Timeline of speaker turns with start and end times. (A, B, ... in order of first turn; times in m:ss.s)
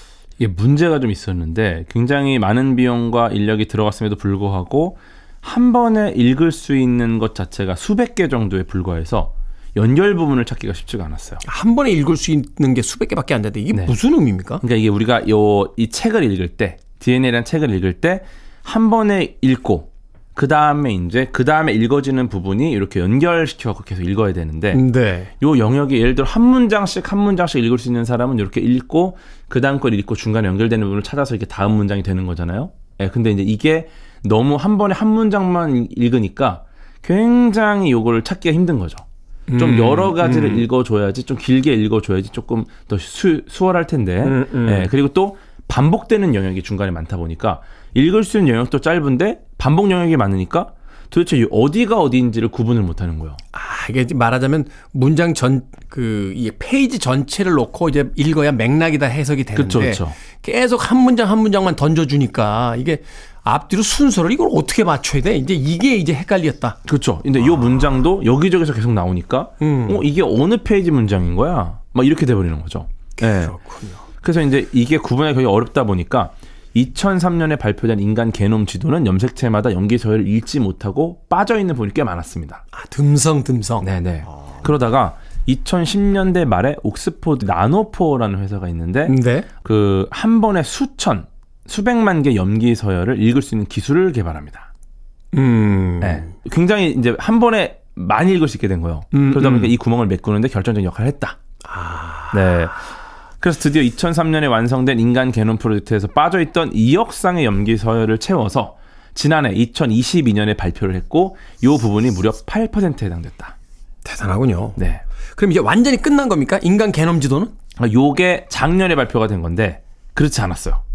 0:00.4-0:11.4 A
0:11.4-0:14.6 B
0:14.6-0:24.8 A
0:24.7-0:25.3 B
0:25.4-0:39.0 A
0:39.5-0:40.7 B
0:39.6-0:53.4 A
0:44.2-0:44.9 B
0:53.5-1:06.8 B
0:59.6-1:00.2 A
1:06.9-1:13.6 A
1:07.4-1:07.8 B
1:09.6-1:10.0 B
1:13.2-1:14.0 B
1:14.2-1:22.6 A
1:22.7-1:23.9 B
1:23.8-1:34.7 A
1:29.1-1:29.5 B
1:35.3-1:36.3 B
1:36.0-1:41.4 A
1:39.1-1:39.7 B
1:41.6-1:42.6 B
1:42.3-1:42.9 A
1:43.4-1:53.6 A
1:54.0-1:54.8 B
1:54.8-1:55.0 A
1:55.4-1:57.5 B
1:57.8-2:00.8 A